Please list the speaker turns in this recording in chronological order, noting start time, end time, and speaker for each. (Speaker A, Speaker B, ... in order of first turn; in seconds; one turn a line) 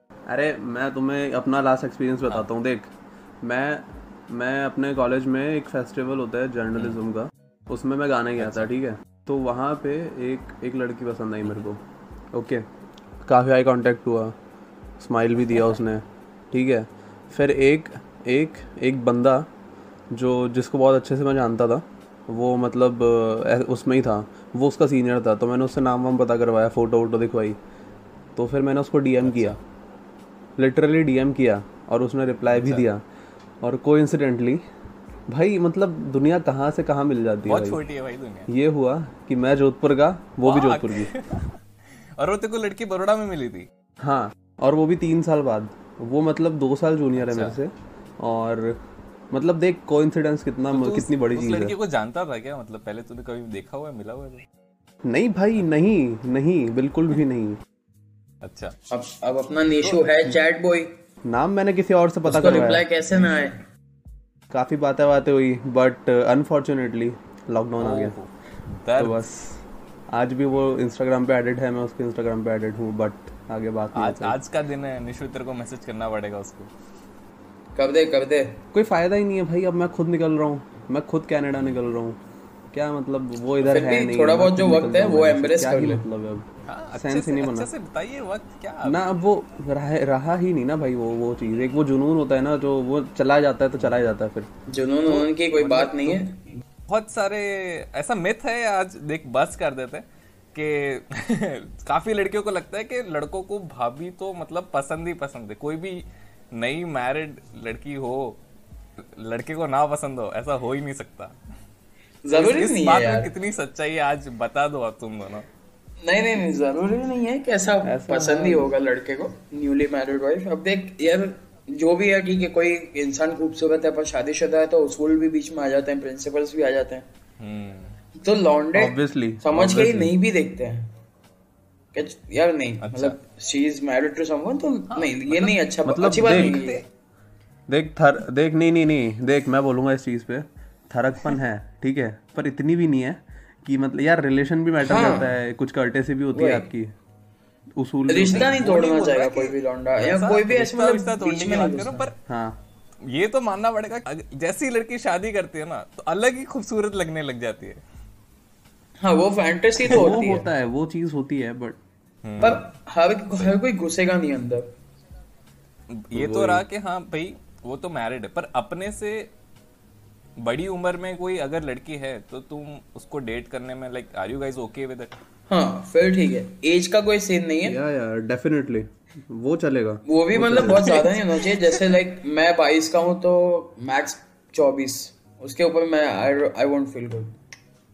Speaker A: 0.3-11.8
Speaker B: 8.4-8.7
Speaker A: 12.3-12.7
Speaker A: 13.2-14.4
Speaker A: 15.0-19.5
Speaker A: 20.1-27.6
Speaker A: 28.4-29.6
Speaker B: 29.2-29.6
Speaker A: 30.6-33.0
Speaker B: 32.5-32.9
Speaker A: 33.6-34.6
Speaker A: 35.3-37.8
Speaker B: 37.5-38.5
Speaker A: 38.5-41.1
Speaker B: 40.4-41.6
Speaker B: 42.2-43.7
Speaker A: 44.0-48.8
Speaker B: 47.2-47.6
Speaker A: 49.3-51.8
Speaker B: 50.7-54.5
Speaker A: 55.0-57.6
Speaker B: 58.4-58.8
Speaker C: 58.9-60.9
Speaker A: 61.2-62.8
Speaker C: 62.3-63.6
Speaker A: 64.5-68.2
Speaker B: 67.8-69.2
Speaker A: 69.0-69.6
Speaker A: 70.1-74.4
Speaker B: 73.9-76.7
Speaker C: 77.8-78.6
Speaker A: 78.7-82.2
Speaker A: 82.7-87.7
Speaker C: 83.6-86.0
Speaker B: 86.7-89.0
Speaker A: 88.8-94.5
Speaker C: 94.7-96.4
Speaker B: 95.6-95.9
Speaker A: 95.8-96.2
Speaker B: 96.9-108.4
Speaker B: 109.0-111.4
Speaker C: 112.2-113.3
Speaker B: 112.3-115.5
Speaker C: 116.0-127.1
Speaker A: 117.8-118.7
Speaker B: 127.4-128.0
Speaker C: 128.2-130.9
Speaker A: 128.8-130.1
Speaker C: 131.9-136.8
Speaker B: 132.8-133.2
Speaker B: 134.9-135.6
Speaker A: 135.9-136.6
Speaker B: 136.1-136.8
Speaker A: 137.7-146.9
Speaker C: 144.8-145.3
Speaker C: 146.3-146.7
Speaker A: 147.8-148.6
Speaker C: 148.1-152.1
Speaker B: 148.3-152.2
Speaker A: 152.3-152.6
Speaker B: 153.1-157.8
Speaker C: 159.0-160.5
Speaker A: 159.9-161.8
Speaker B: 162.2-162.7
Speaker C: 162.4-164.7
Speaker B: 165.9-169.3
Speaker A: 166.1-166.7
Speaker B: 170.4-175.1
Speaker C: 175.5-177.8
Speaker A: 177.7-181.1
Speaker C: 180.1-187.4